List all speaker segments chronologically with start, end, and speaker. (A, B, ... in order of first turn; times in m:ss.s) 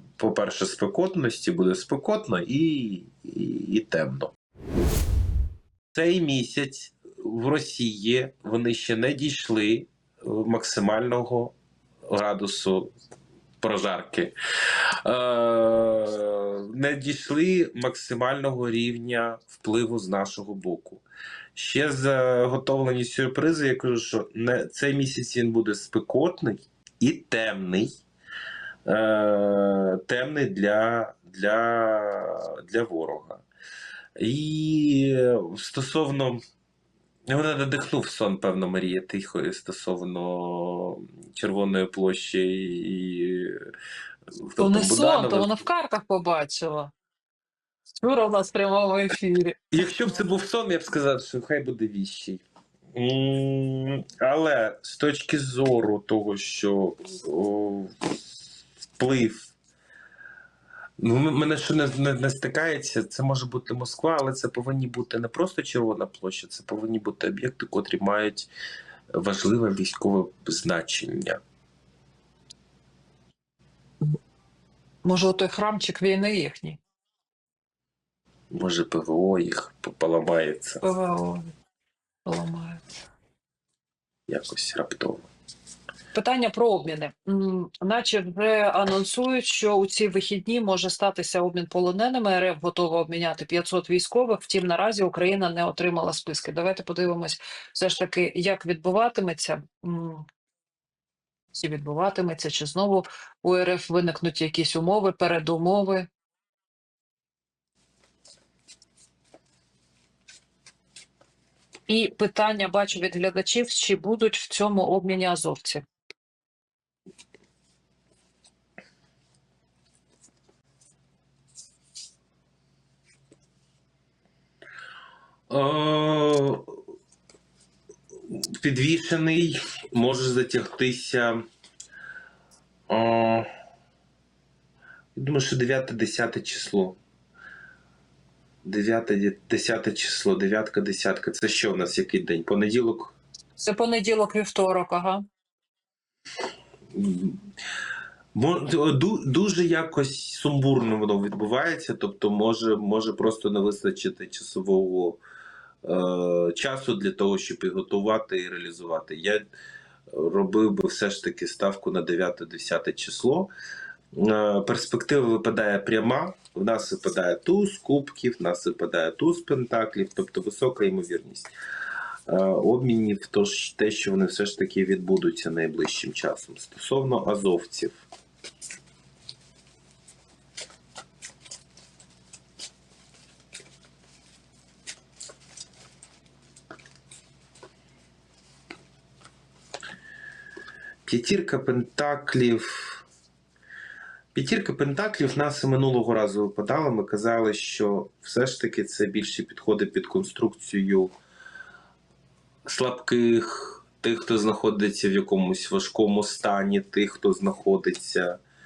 0:00.2-0:04.3 A
0:05.9-0:11.5 A
0:12.1-0:12.9 A
0:13.6-0:14.3 A
0:15.0-0:21.0 A
0:21.6-0:27.9 A
0:28.8-0:33.4 A
0:34.2-0:36.4 A
0:37.3-0:43.6 A
0:44.4-0:45.5 A
0:44.6-0:46.9 B
0:48.0-0:49.6 B
0:49.7-0:52.4 A
0:52.9-0:58.2 A
0:59.0-0:59.5 A
1:01.0-1:08.5 A
1:09.2-1:11.4 A
1:15.0-1:16.8 B
1:18.5-1:20.8 A
1:20.8-1:21.5 B
1:22.2-1:22.8 B
1:24.3-1:25.3 A
1:26.1-1:40.3 B
1:41.5-1:46.1 B
1:51.9-1:55.8 B
2:05.5-2:06.8 A
2:08.3-2:11.4 A
2:12.9-2:13.5 A
2:15.2-2:17.0 A
2:18.6-2:23.2 A
2:23.6-2:25.2 B
2:26.9-2:27.5 A
2:28.3-2:35.2 A
2:35.8-2:39.4 A
2:40.1-2:43.5 A
2:44.2-2:51.5 A
2:52.3-2:58.0 A
3:11.1-3:13.0 A
3:14.3-3:21.1 A
3:22.7-3:28.4 A